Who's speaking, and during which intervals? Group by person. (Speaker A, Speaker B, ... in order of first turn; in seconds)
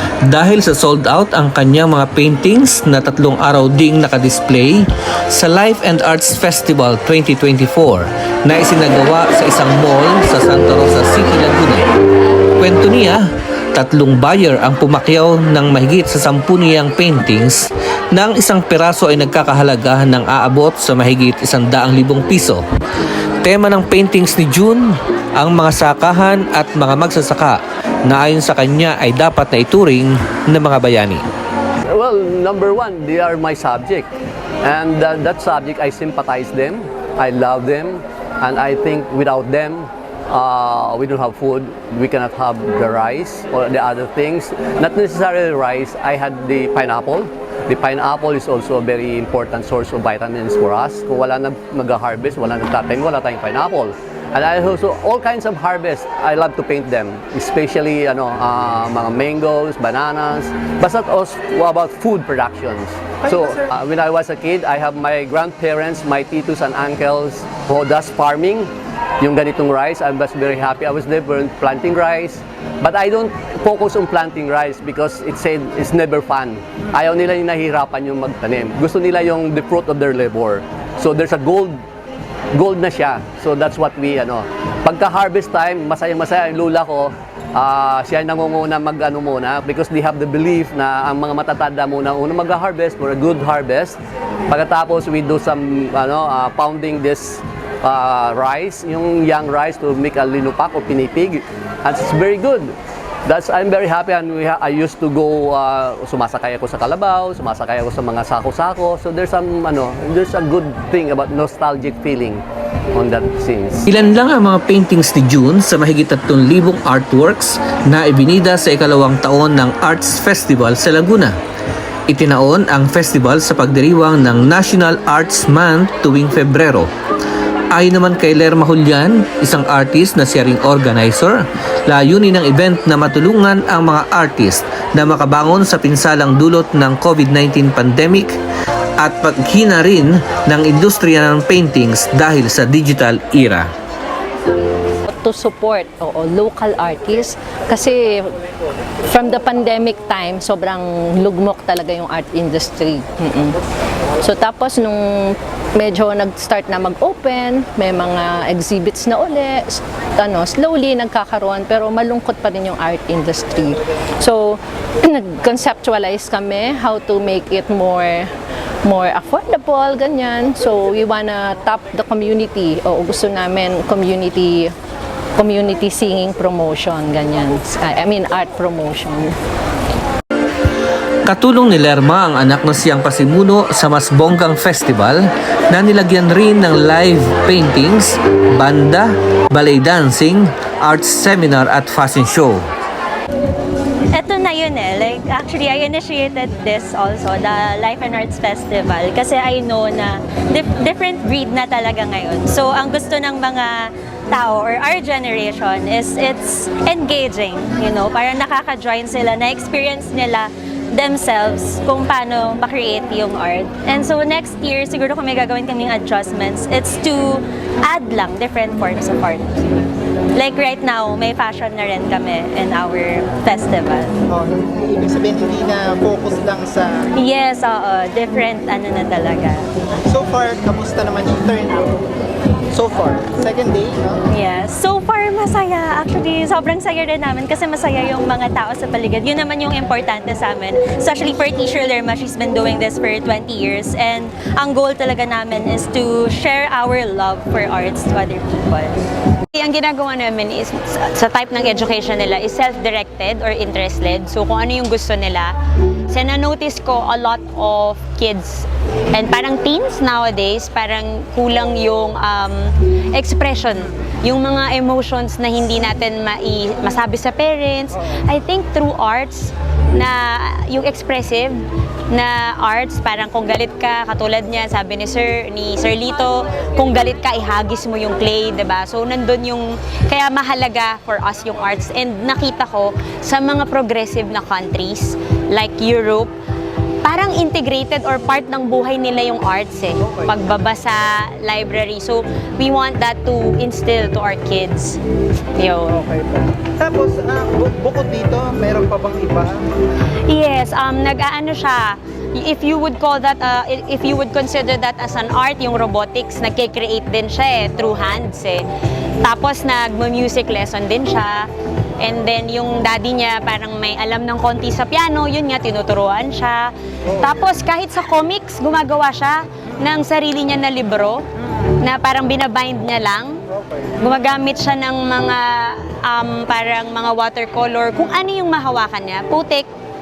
Speaker A: 0.2-11.9, 12.6-22.6, 23.4-31.3, 113.9-121.3, 122.1-126.9, 127.7-138.3, 139.0-143.7, 181.2-192.7
Speaker B: 31.9-34.1, 34.6-81.8, 82.5-94.0, 94.5-102.7, 103.2-113.9
Speaker C: 145.2-148.3, 149.1-153.6, 154.2-168.3, 168.8-174.7, 175.4-179.4
Speaker D: 194.1-219.7, 220.4-224.1, 227.2-229.7, 234.3-249.0
Speaker E: 224.3-226.9, 230.1-231.9, 232.7-234.2, 296.2-299.5
Speaker F: 249.5-255.5, 256.1-271.6, 272.1-286.3, 287.0-295.0, 295.6-296.0, 300.3-308.6, 309.2-311.5, 312.0-321.2, 321.8-323.4, 324.0-329.7